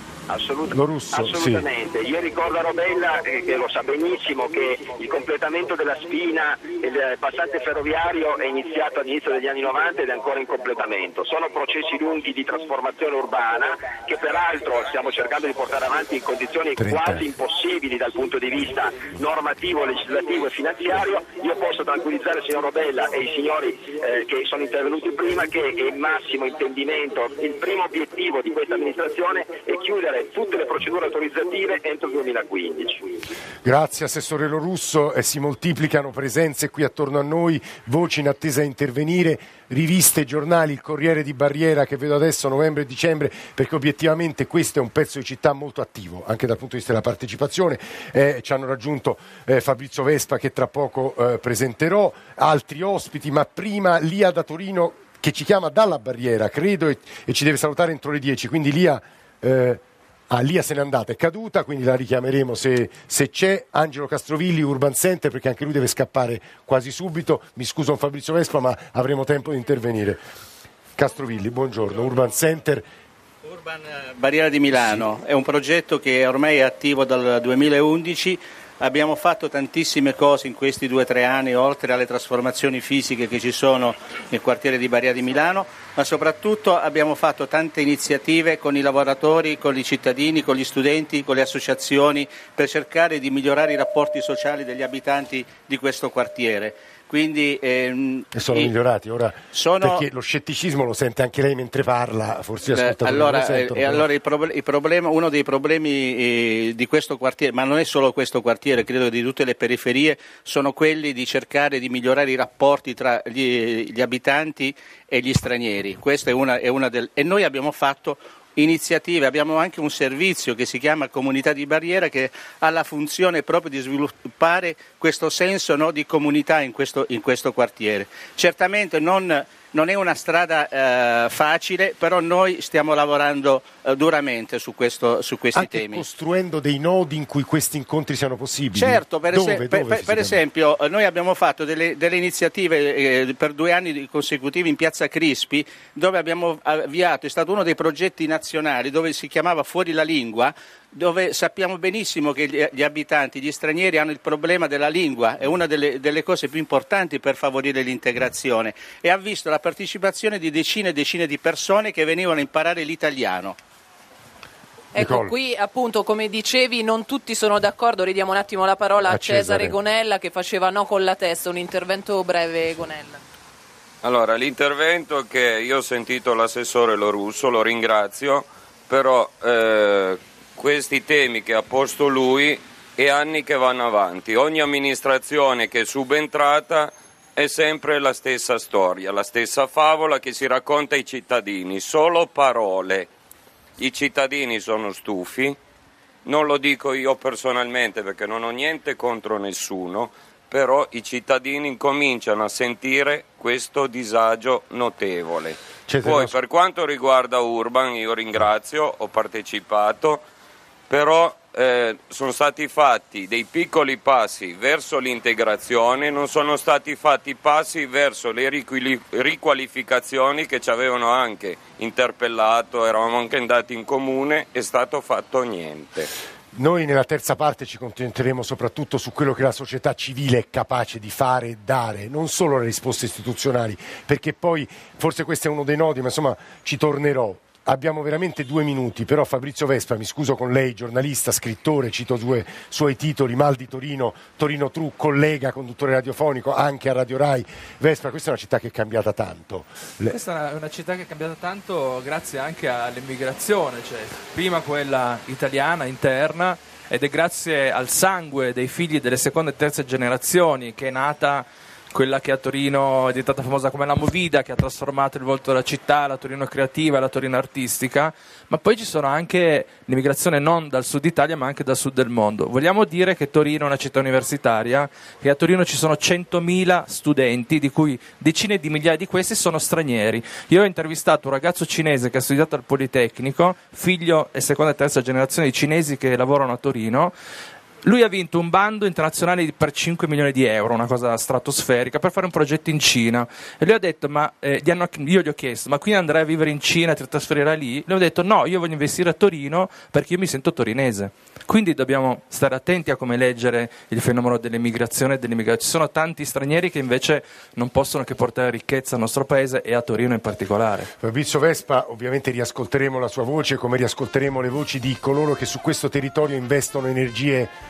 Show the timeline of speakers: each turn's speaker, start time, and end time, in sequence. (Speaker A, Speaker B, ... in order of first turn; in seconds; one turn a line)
Speaker A: 0.3-33.0
Speaker B: 0.7-1.7
Speaker B: 16.8-17.3
Speaker B: 33.6-70.2
Speaker B: 71.0-72.8
Speaker C: 73.4-98.7
Speaker B: 74.7-75.0
Speaker B: 98.3-104.0
Speaker C: 99.5-100.0
Speaker C: 102.7-136.0
Speaker B: 135.5-140.4
Speaker C: 138.7-163.6
Speaker D: 164.9-173.2
Speaker B: 164.9-165.3
Speaker B: 169.1-169.8
Speaker E: 174.0-193.1
Speaker E: 193.8-195.6
Speaker E: 196.2-210.2
Speaker B: 205.9-206.3
Speaker E: 210.9-226.1
Speaker B: 226.5-250.2
Speaker F: 250.1-287.1
Speaker F: 287.8-310.9
Speaker B: 311.0-317.5